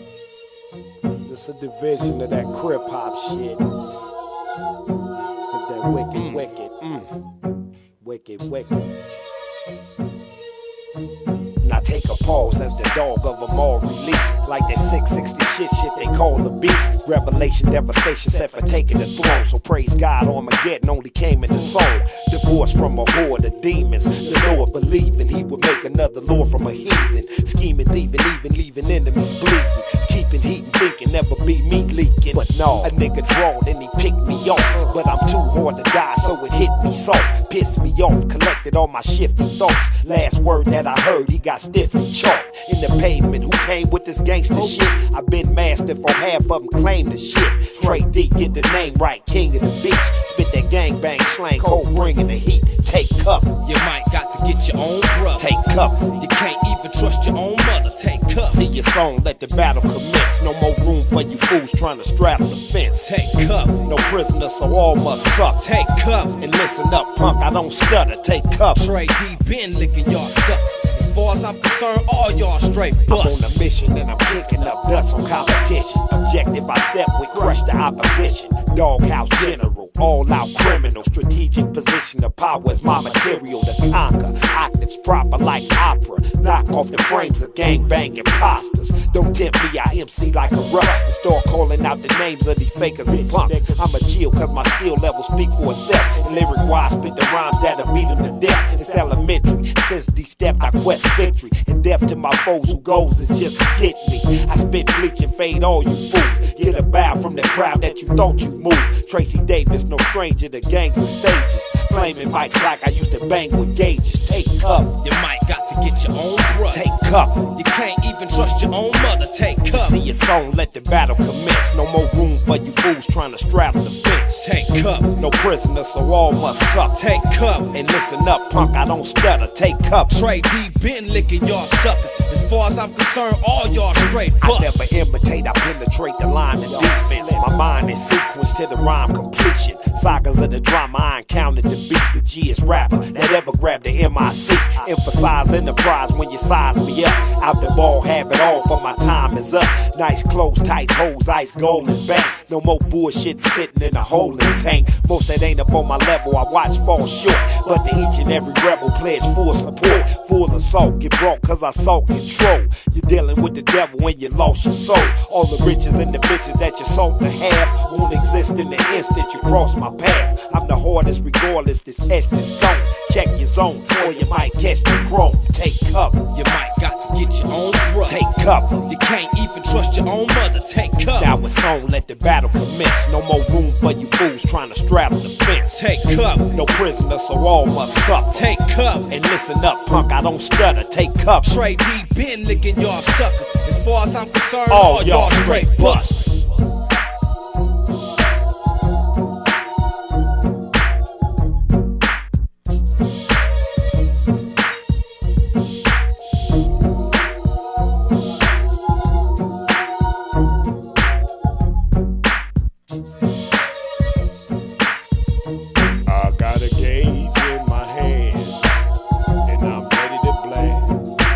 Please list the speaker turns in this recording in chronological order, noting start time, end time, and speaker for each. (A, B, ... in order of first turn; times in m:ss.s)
0:01.2-0:03.6 A
0:05.5-0:07.1 A
0:06.1-0:06.5 B
0:08.0-0:08.9 A
0:11.6-0:53.5 A
0:53.6-0:58.6 B
0:55.4-0:56.0 A
0:58.4-1:03.0 A
1:03.0-1:03.8 B
1:03.8-1:05.6 A
1:05.6-1:06.4 B
1:06.4-1:08.9 A
1:08.8-1:13.7 B
1:13.1-1:55.0 A
1:55.0-1:56.9 B
1:56.7-1:57.5 A
1:57.4-2:00.0 B
1:59.7-2:04.4 A
2:04.3-2:05.1 B
2:05.1-2:07.0 A
2:06.9-2:07.8 B
2:07.7-2:10.2 A
2:10.1-2:14.8 B
2:14.4-2:56.2 A
2:56.3-2:58.2 B
2:58.0-2:58.9 A
2:58.8-3:01.3 B
3:01.2-3:05.8 A
3:05.7-3:06.5 B
3:06.5-3:08.5 A
3:08.3-3:09.1 B
3:09.1-3:11.5 A
3:11.4-3:16.4 B
3:14.7-3:16.4 A
3:36.1-3:38.6 A
3:39.4-3:41.0 A